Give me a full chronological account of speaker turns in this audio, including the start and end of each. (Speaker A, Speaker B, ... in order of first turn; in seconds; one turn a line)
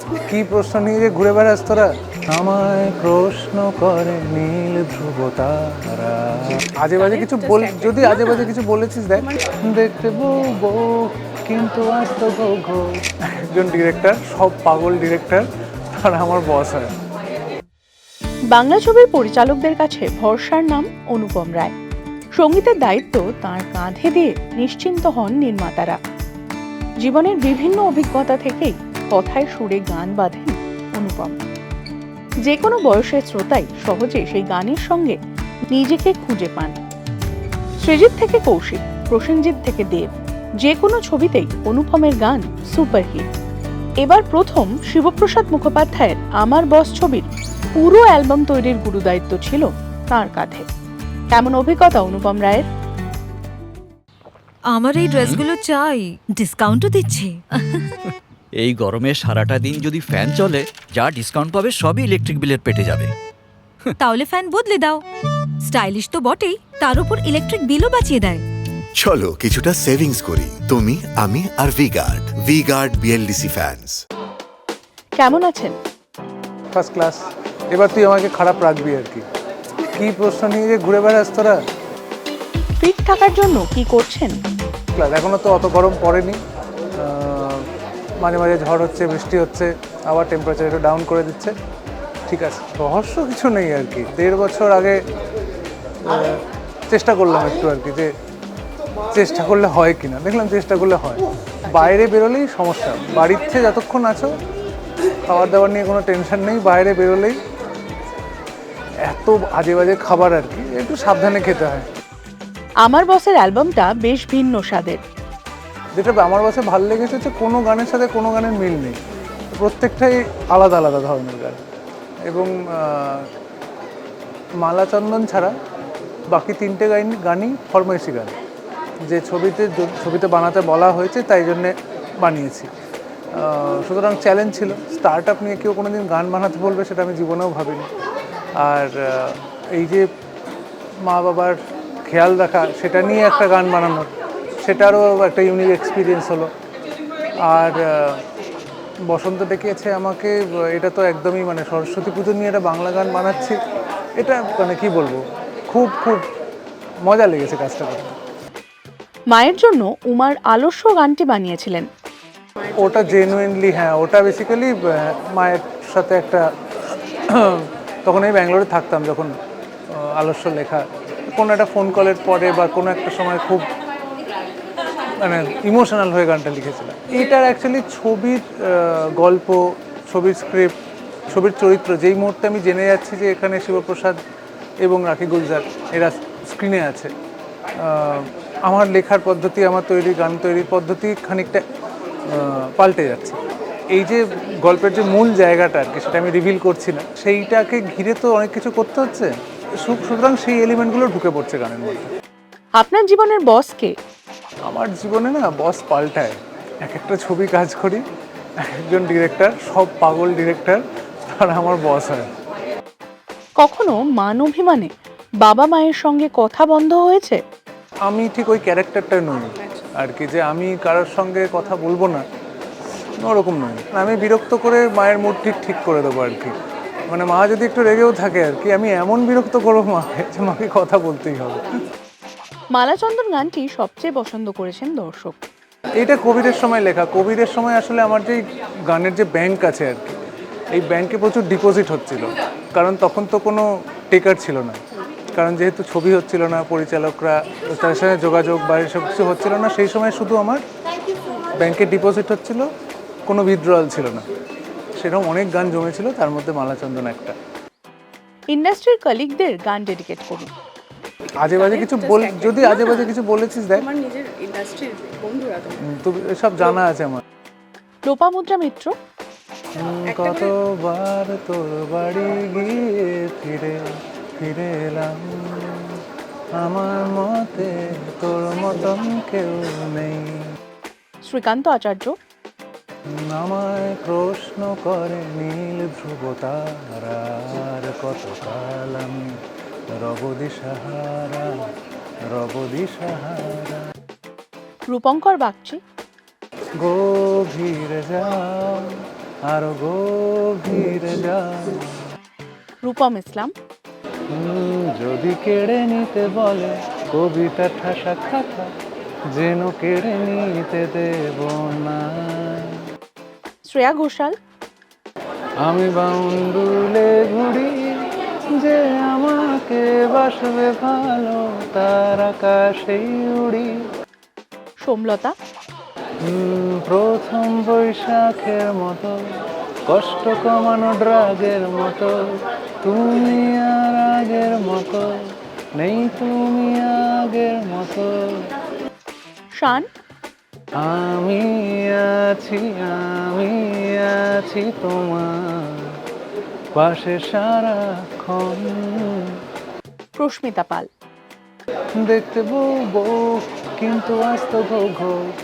Speaker A: 0.3-12.8
Speaker B: 7.0-8.4
Speaker A: 13.5-15.5
Speaker A: 16.0-16.9
Speaker C: 18.5-21.7
Speaker C: 22.4-26.0
Speaker C: 27.0-31.3
Speaker C: 32.5-35.1
Speaker C: 35.7-36.7
Speaker C: 37.8-40.1
Speaker C: 40.6-43.2
Speaker C: 44.0-50.6
Speaker C: 51.3-52.6
Speaker D: 54.7-57.9
Speaker E: 58.6-63.1
Speaker D: 64.0-65.0
Speaker D: 65.6-68.4
Speaker F: 69.0-74.0
Speaker C: 75.2-75.7
Speaker A: 76.7-79.2
Speaker A: 79.9-81.6
Speaker C: 82.8-84.3
Speaker A: 84.9-86.4
Speaker A: 86.9-87.7
Speaker A: 88.2-91.5
Speaker A: 92.3-95.0
Speaker A: 96.0-98.1
Speaker A: 99.1-104.3
Speaker A: 105.3-107.4
Speaker A: 109.0-111.9
Speaker C: 112.8-115.0
Speaker A: 116.0-119.0
Speaker A: 119.5-121.6
Speaker A: 122.2-123.3
Speaker A: 124.6-125.5
Speaker A: 126.3-128.3
Speaker A: 129.0-132.7
Speaker A: 133.3-137.9
Speaker A: 138.6-140.1
Speaker A: 141.0-144.1
Speaker A: 144.6-146.5
Speaker A: 147.4-148.2
Speaker A: 149.1-153.6
Speaker A: 154.2-156.2
Speaker A: 157.0-158.1
Speaker C: 159.3-161.8
Speaker A: 162.7-169.3
Speaker A: 169.9-173.7
Speaker A: 175.2-180.7
Speaker A: 181.3-184.2
Speaker A: 184.8-187.1
Speaker A: 187.8-191.6
Speaker A: 192.3-193.4
Speaker A: 193.9-202.1
Speaker C: 202.8-203.9
Speaker A: 204.6-208.0
Speaker A: 208.6-212.3
Speaker C: 213.6-214.9
Speaker C: 215.4-217.4
Speaker A: 218.1-222.2
Speaker A: 223.2-226.5
Speaker A: 227.1-231.7
Speaker C: 232.7-235.3
Speaker A: 236.0-240.2
Speaker A: 240.7-244.8
Speaker A: 245.3-250.6
Speaker A: 251.6-252.7
Speaker A: 253.3-254.3
Speaker A: 254.9-257.4
Speaker C: 258.5-260.5
Speaker B: 261.2-263.1
Speaker A: 261.4-263.9
Speaker B: 263.8-265.7
Speaker A: 265.8-267.2
Speaker C: 268.1-268.9
Speaker A: 269.8-273.8
Speaker B: 270.1-270.4
Speaker A: 274.4-276.0
Speaker A: 276.6-280.4
Speaker C: 281.2-282.1
Speaker A: 283.3-289.4
Speaker A: 289.9-291.7
Speaker A: 292.3-293.8
Speaker C: 294.9-295.8
Speaker A: 296.8-298.9
Speaker A: 299.5-301.9
Speaker C: 302.8-303.5
Speaker A: 304.3-308.7
Speaker A: 309.3-312.8
Speaker C: 313.7-314.3
Speaker A: 315.6-323.7
Speaker C: 324.8-325.3
Speaker A: 326.2-329.1
Speaker A: 329.9-332.1
Speaker A: 332.8-338.4
Speaker C: 339.6-339.9
Speaker A: 340.8-346.0
Speaker A: 346.8-349.3
Speaker C: 350.2-350.9
Speaker A: 352.0-355.2